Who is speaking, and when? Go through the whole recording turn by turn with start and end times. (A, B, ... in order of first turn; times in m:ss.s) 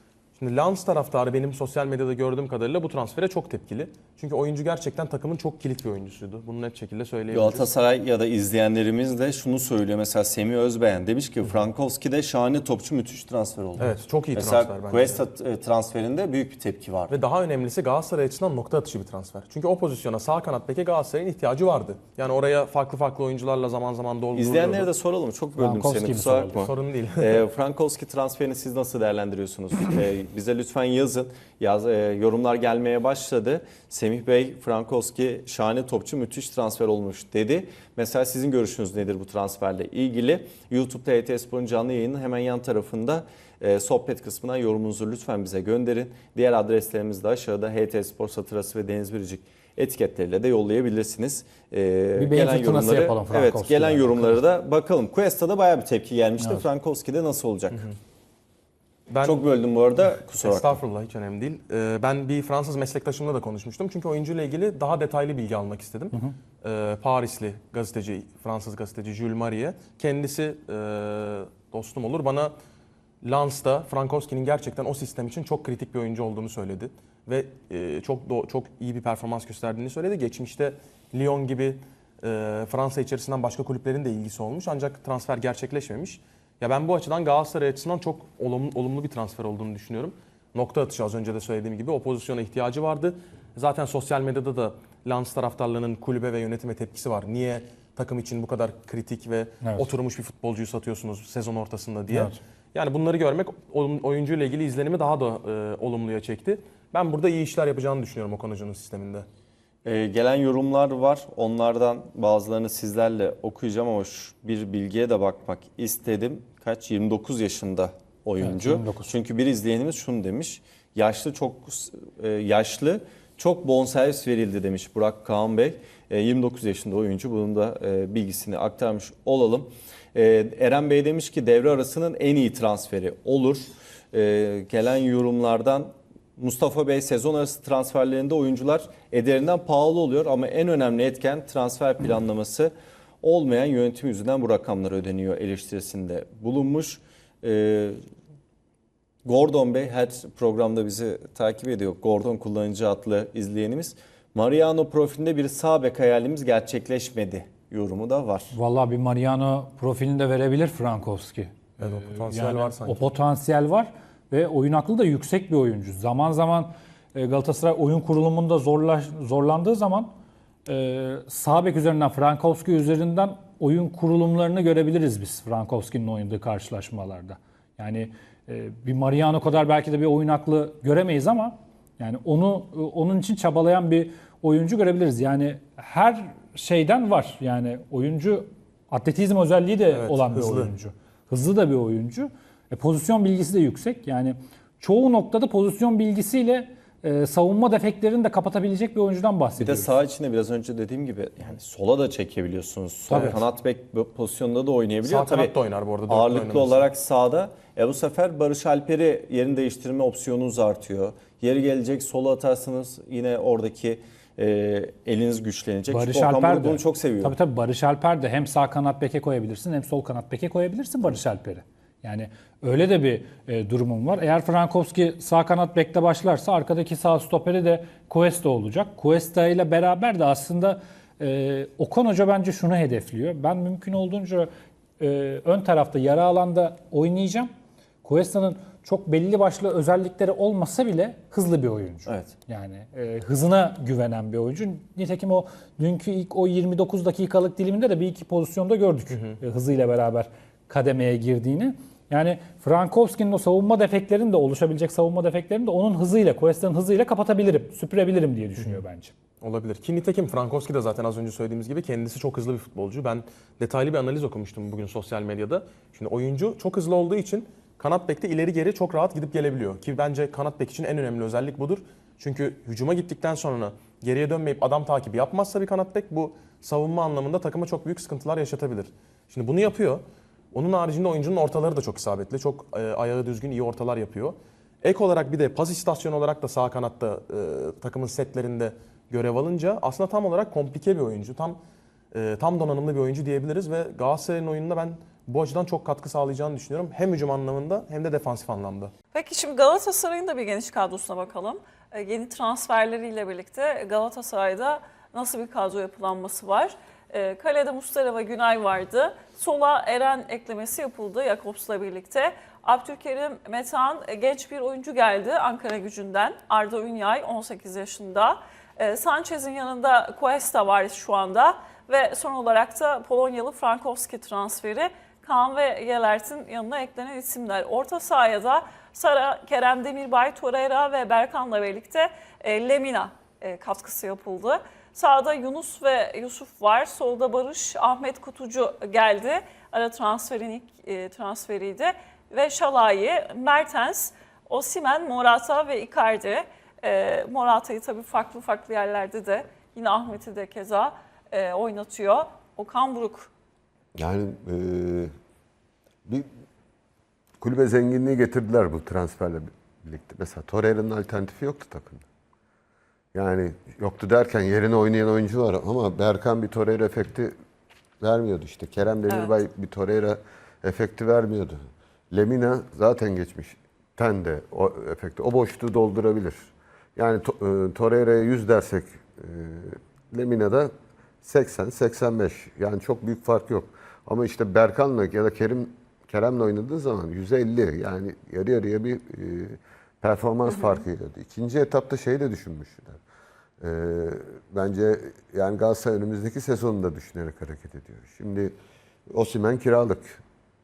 0:00.4-0:07.7 A
0:07.3-0:17.1 B
0:13.8-0:15.2 A
0:17.1-0:24.9 A
0:24.3-0:57.9 B
0:25.6-0:26.6 C
0:26.6-0:27.4 A
0:52.2-0:54.4 C
0:56.4-0:56.6 C
0:57.7-0:58.0 A
0:59.1-0:59.4 A
0:59.2-1:00.8 B
1:00.2-1:12.5 A
1:13.2-1:49.3 A
1:39.6-1:39.9 C
1:42.1-1:42.4 C
1:49.8-2:28.0 B
1:58.4-1:59.1 C
2:29.2-2:38.5 B
2:38.5-2:50.1 C
2:41.8-2:43.1 A
2:50.7-3:19.9 C
3:09.9-3:10.7 A
3:19.6-3:25.5 B
3:23.1-3:23.4 C
3:23.1-3:23.4 A
3:25.0-3:26.8 A
3:26.1-3:37.4 B
3:35.9-3:57.5 C
3:58.0-4:19.1 C
4:02.0-4:02.3 B
4:09.1-4:09.4 A
4:18.6-4:18.8 A
4:19.4-4:51.6 A
4:52.1-4:58.9 A
4:59.1-5:53.3 D
5:54.0-5:55.1 E
5:57.4-6:02.0 E
6:03.1-6:07.3 E
6:08.0-6:11.6 E
6:12.1-6:20.7 E
6:21.2-6:33.0 E
6:30.5-6:30.8 D
6:33.6-6:38.5 E
6:39.1-6:40.2 E